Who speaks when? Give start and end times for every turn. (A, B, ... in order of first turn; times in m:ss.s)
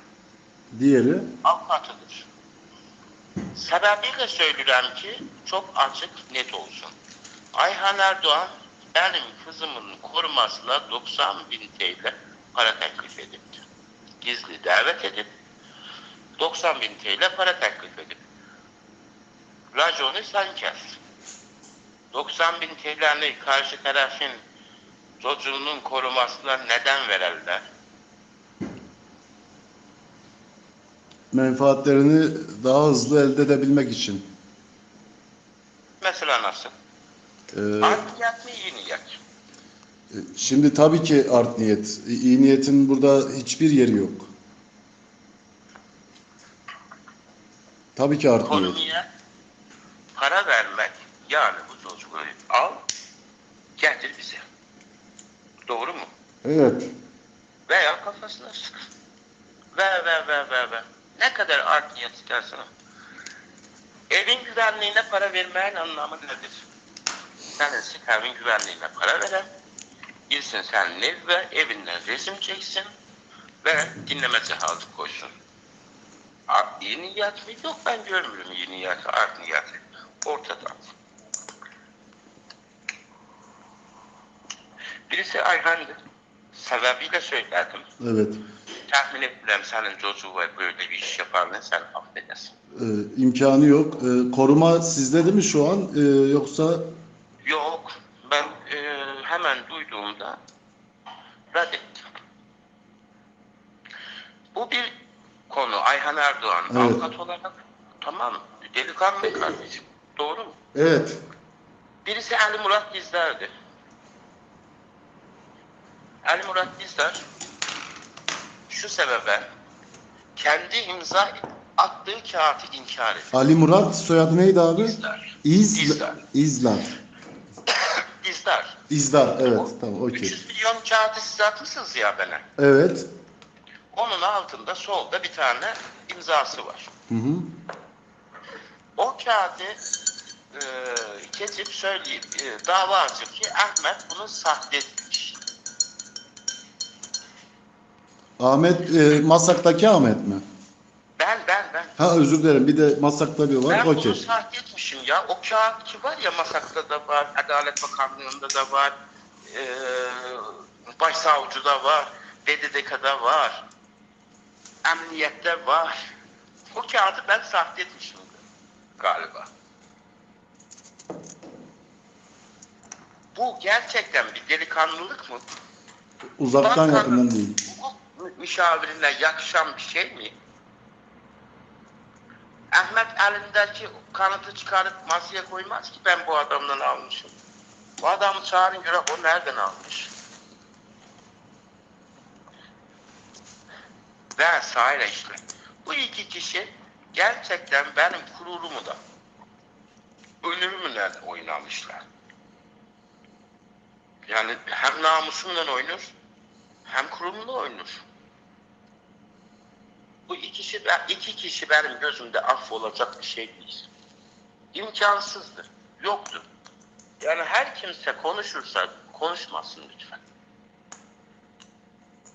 0:00.7-0:01.3 A
0:01.4-0:02.3 B
0:03.5-0:06.9 B
0:07.5-0:13.6 B
0:14.2-0:15.3 B
0:16.4-0:18.2 B
0:19.7-0:21.0 B
0:22.1-0:24.4 B
0:25.2-0:27.6 B
0:31.3-0:34.3 A
0:36.0-0:36.7 B
0:37.5-0:38.0 A
0:37.8-0:39.2 B
0:40.1-0:44.3 A
0:48.0-0:48.8 A
0:48.4-0:49.1 B
0:50.1-0:52.8 B
0:53.8-0:54.4 B
0:55.7-0:56.1 B
0:56.4-0:56.9 A
0:57.7-0:58.8 B
0:59.7-1:02.7 B
1:04.1-1:06.6 B
1:07.6-1:09.5 B
1:10.3-1:12.9 B
1:13.6-1:15.3 B
1:16.5-1:20.9 B
1:25.1-1:26.0 B
1:26.5-1:27.8 B
1:28.0-1:28.4 A
1:28.9-1:32.5 B
1:32.7-1:36.9 A
1:37.4-1:40.4 B
1:41.5-1:42.0 B
1:44.5-1:44.9 B
1:45.5-1:50.6 B
1:46.7-1:47.0 A
1:50.7-1:51.2 A
1:52.0-1:53.5 B
1:56.2-1:57.2 B
1:58.7-1:59.4 B
2:00.4-2:03.3 B
2:03.3-2:06.9 A
2:04.8-2:06.2 B
2:07.7-2:08.8 B
2:08.9-2:10.3 A
2:09.5-2:12.5 B
2:12.6-2:13.1 A
2:13.9-2:16.9 B
2:17.1-2:17.5 A
2:19.0-2:19.8 B
2:20.5-2:25.4 B
2:28.4-2:30.4 A
2:31.2-2:32.0 B
2:32.0-2:34.2 A
2:33.7-2:38.9 B
2:39.5-2:43.6 B
2:44.8-2:46.0 B
2:46.7-2:48.4 B
2:49.0-2:49.5 B
2:53.3-2:55.4 B
2:56.4-2:57.6 A
2:56.6-3:00.3 B
3:02.7-3:07.3 B
3:08.0-3:10.1 B
3:14.4-3:19.0 B
3:20.4-3:22.0 B
3:24.3-3:26.1 B
3:26.8-3:28.0 B
3:30.3-3:33.9 B
3:34.7-3:36.4 B
3:37.2-3:40.2 B